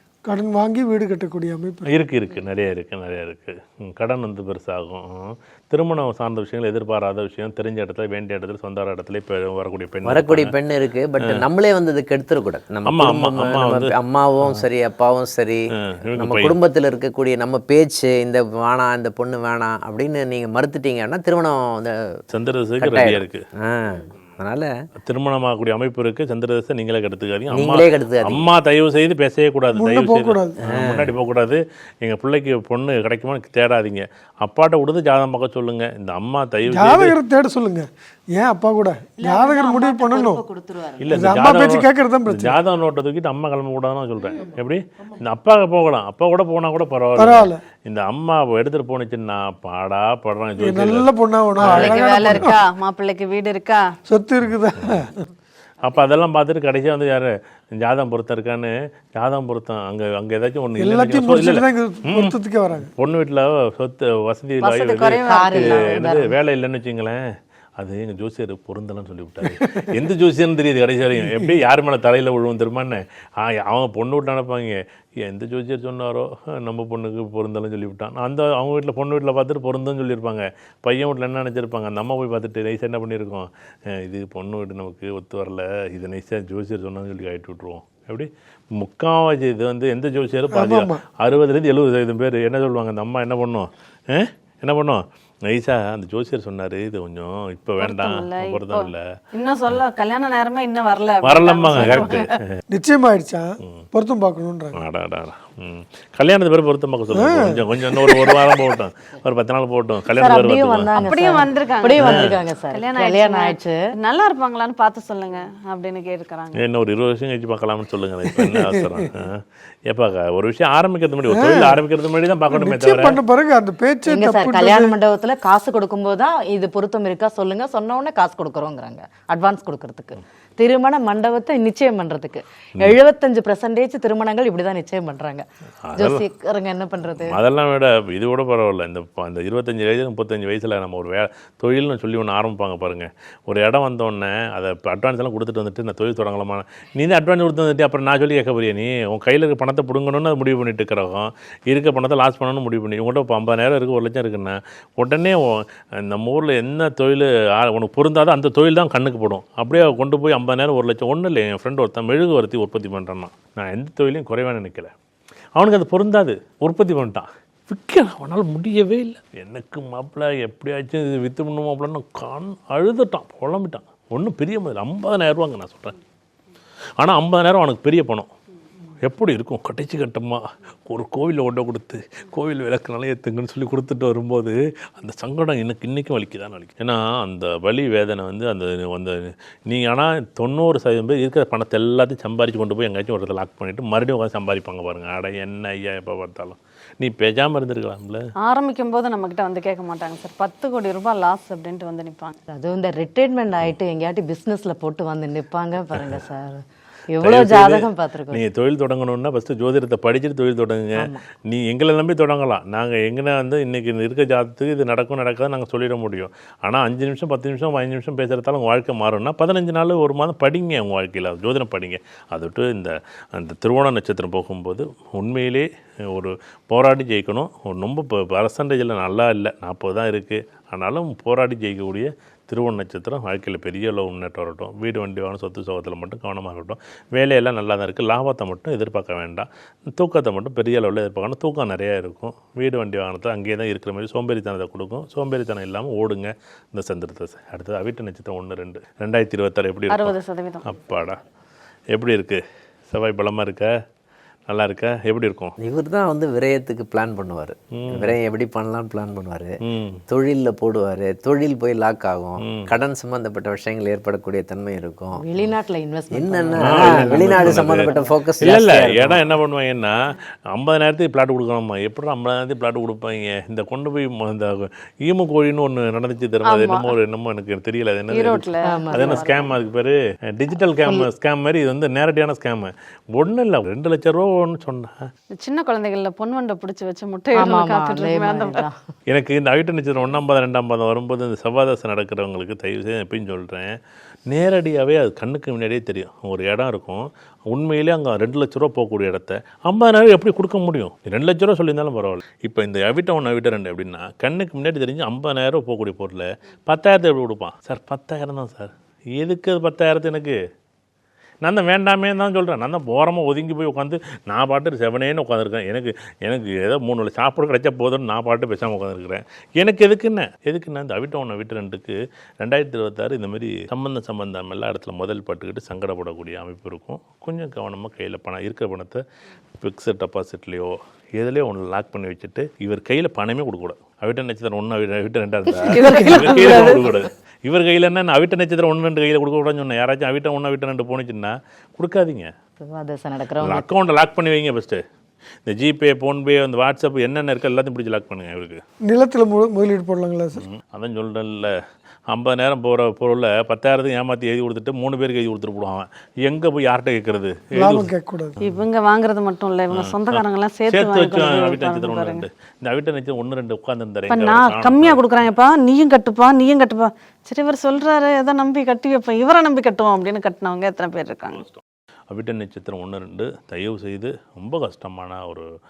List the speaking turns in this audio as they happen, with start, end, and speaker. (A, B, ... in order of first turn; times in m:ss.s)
0:00.2-0:01.9 A
0:01.9-0:10.5 B
0:10.0-0:22.2 C
0:11.2-0:11.4 B
0:12.8-0:14.6 B
0:15.8-0:16.5 B
0:22.3-0:23.4 B
0:22.8-0:24.7 C
0:25.0-0:37.2 B
0:27.5-0:28.5 C
0:29.7-0:30.6 A
0:30.6-0:31.1 C
0:36.6-0:40.4 A
0:39.2-0:41.3 D
0:41.0-0:51.1 B
0:41.1-0:42.6 A
0:47.2-0:47.6 A
0:50.6-0:52.6 A
0:51.6-0:52.5 B
0:51.6-0:53.8 E
0:54.1-0:55.3 A
0:55.8-1:02.3 B
1:00.8-1:02.9 A
1:02.9-1:07.2 B
1:04.6-1:06.0 E
1:05.2-1:06.3 D
1:07.8-1:39.0 B
1:09.4-1:09.9 A
1:11.2-1:11.5 A
1:30.5-1:31.0 A
1:37.8-1:42.3 E
1:41.2-1:42.3 B
1:42.7-1:44.8 A
1:44.7-1:50.9 B
1:47.1-1:48.5 A
1:50.1-1:53.7 D
1:50.9-1:56.6 E
1:52.0-1:52.3 B
1:56.6-2:03.2 B
1:58.2-1:58.9 A
2:01.3-2:01.8 A
2:02.5-2:05.0 A
2:04.1-2:17.4 D
2:15.9-2:16.2 B
2:17.2-2:44.9 B
2:45.6-2:56.0 B
2:57.0-2:58.3 B
2:59.0-3:18.2 B
3:18.4-3:22.4 E
3:22.5-3:28.4 D
3:25.9-3:26.2 B
3:27.2-4:11.2 B
3:31.0-3:31.2 D
4:09.9-4:10.6 E
4:11.9-4:13.7 B
4:14.5-4:15.5 B
4:15.6-4:19.5 C
4:17.7-4:18.2 B
4:19.6-4:20.0 B
4:20.1-4:25.2 C
4:22.4-4:22.7 B
4:25.2-4:28.0 D
4:26.1-4:29.2 C
4:26.6-4:29.9 B
4:30.5-4:45.1 B
4:36.4-4:36.9 E
4:38.1-4:39.5 E
4:38.6-4:39.3 D
4:40.8-4:41.1 D
4:45.4-4:48.6 E
4:47.3-4:48.7 D
4:49.1-4:53.8 B
4:54.3-5:10.4 B
5:11.4-5:29.0 B
5:29.6-5:42.3 B
5:35.6-5:36.7 D
5:35.7-5:36.8 E
5:42.6-5:43.7 D
5:43.4-5:44.8 B
5:45.4-5:48.6 B
5:48.9-5:50.4 A
5:50.4-5:51.5 B
5:52.1-5:57.9 B
5:57.5-5:58.4 A
5:58.4-6:02.2 E
5:59.7-6:05.0 B
6:04.1-6:11.4 E
6:11.3-6:15.5 B